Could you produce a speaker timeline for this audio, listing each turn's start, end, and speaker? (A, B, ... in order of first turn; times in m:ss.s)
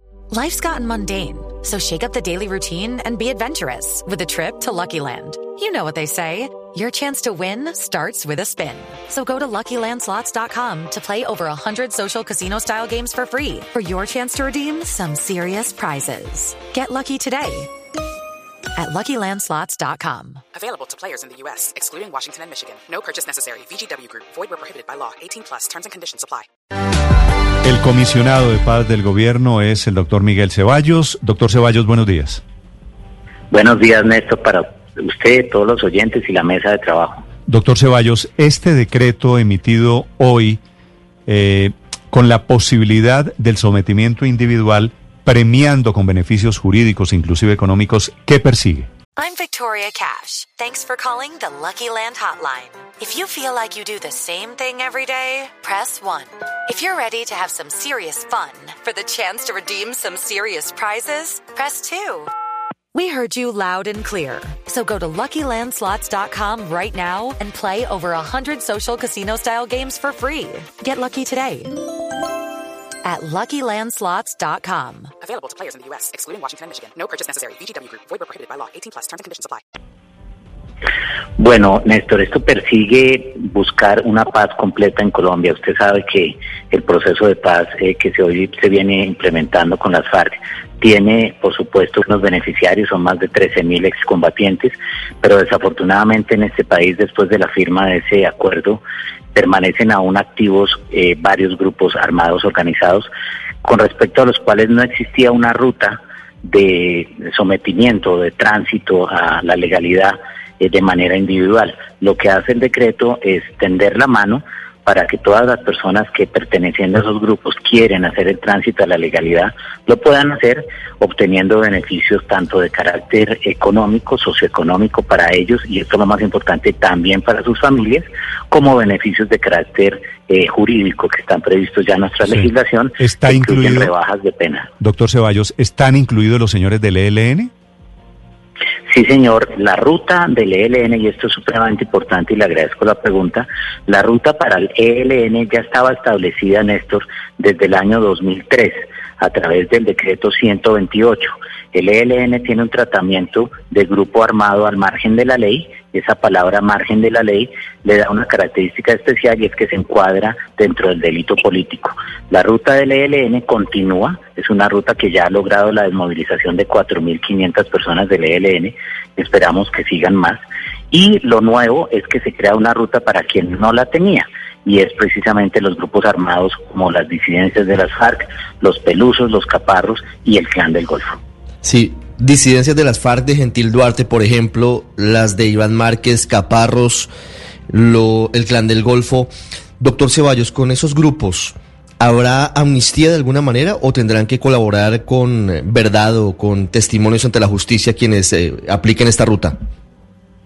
0:00.3-0:17.7 A
0:18.8-0:20.4 A
0:20.6-0:26.5 B
0:27.6-0:32.4 C
0:33.5-0:37.2 D
0:37.5-0:40.6 C
0:41.3-0:48.9 C
0:49.2-1:02.3 A
1:02.9-1:11.8 A
1:13.0-1:15.1 A
1:15.2-1:19.6 B
1:21.4-1:38.8 D
1:39.3-1:43.1 D
1:43.6-2:14.7 D
2:13.0-2:13.9 C
2:14.8-2:17.5 C
2:18.9-2:50.4 D
2:50.9-3:01.2 D
3:01.6-3:07.1 E
3:07.7-3:19.6 E